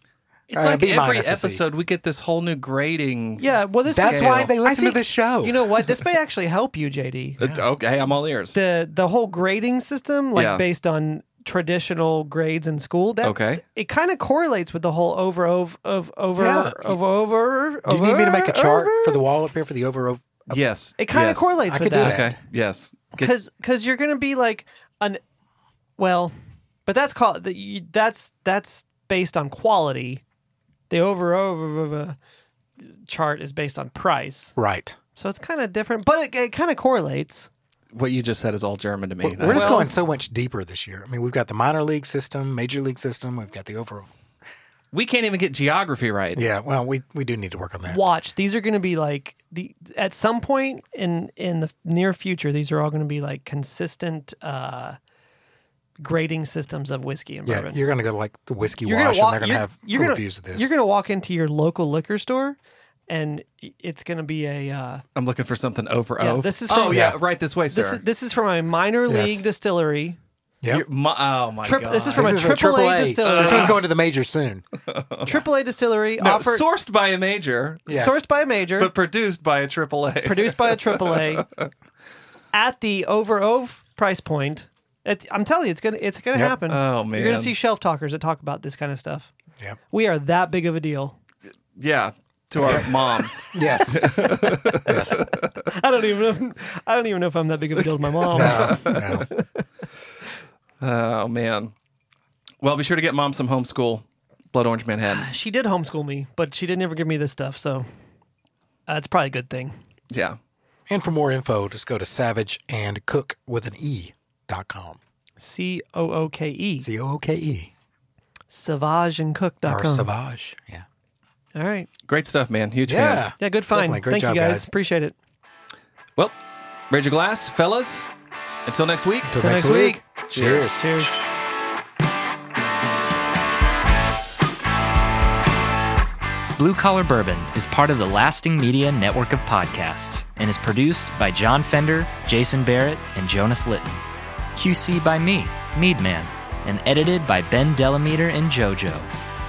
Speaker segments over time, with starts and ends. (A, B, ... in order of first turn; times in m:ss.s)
0:00.5-0:04.5 A
0:00.5-0:01.6 B
0:03.4-0:07.4 C
0:03.9-0:05.7 B
0:07.4-0:08.6 A
0:07.4-0:07.6 B
0:08.5-0:19.3 C
0:10.4-0:10.6 A
0:13.2-0:13.6 A
0:16.4-0:17.0 B
0:17.9-0:20.6 B
0:20.5-0:23.3 A
0:21.0-0:22.2 C
0:21.7-0:22.4 B
0:23.2-0:25.2 C
0:26.0-0:26.3 C
0:26.8-0:30.2 C
0:30.9-0:32.2 C
0:32.9-0:34.5 C
0:34.6-0:35.0 B
0:35.2-0:37.5 C
0:37.9-0:39.9 A
0:39.2-0:44.1 B
0:39.5-0:39.9 C
0:44.9-0:46.4 A
0:46.4-0:48.0 B
0:47.9-0:55.0 C
0:56.0-0:57.8 C
0:57.5-1:00.7 B
0:58.8-1:05.0 C
1:05.2-1:08.0 A
1:06.2-1:07.2 C
1:06.9-1:07.2 B
1:07.7-1:10.2 C
1:09.1-1:09.4 B
1:10.7-1:12.5 A
1:11.6-1:13.8 C
1:12.1-1:14.6 B
1:13.2-1:13.8 A
1:14.9-1:15.5 A
1:15.2-1:16.7 C
1:16.2-1:17.9 A
1:17.9-1:18.2 B
1:17.9-1:18.9 C
1:18.8-1:21.7 A
1:20.2-1:21.5 C
1:22.5-1:29.3 C
1:26.7-1:27.5 A
1:29.9-1:31.2 C
1:31.8-1:35.5 A
1:32.6-1:32.9 B
1:33.5-1:34.2 B
1:34.6-1:35.1 C
1:34.8-1:35.2 B
1:35.7-1:39.7 C
1:38.3-1:38.9 A
1:38.3-1:39.3 B
1:40.8-1:41.7 A
1:42.6-1:45.3 A
1:45.0-1:47.9 C
1:48.9-1:49.8 C
1:50.1-1:50.4 A
1:50.9-1:55.0 B
1:55.4-1:56.9 C
1:56.8-1:57.7 B
1:58.5-2:00.1 C
1:59.7-2:00.9 B
2:01.5-2:01.9 C
2:02.1-2:03.3 A
2:02.9-2:04.7 B
2:03.4-2:05.2 C
2:06.9-2:08.1 A
2:08.6-2:09.4 A
2:09.3-2:10.8 B
2:09.4-2:10.0 C
2:10.3-2:10.8 A
2:10.7-2:11.2 C
2:16.6-2:24.0 D
2:24.6-2:29.1 D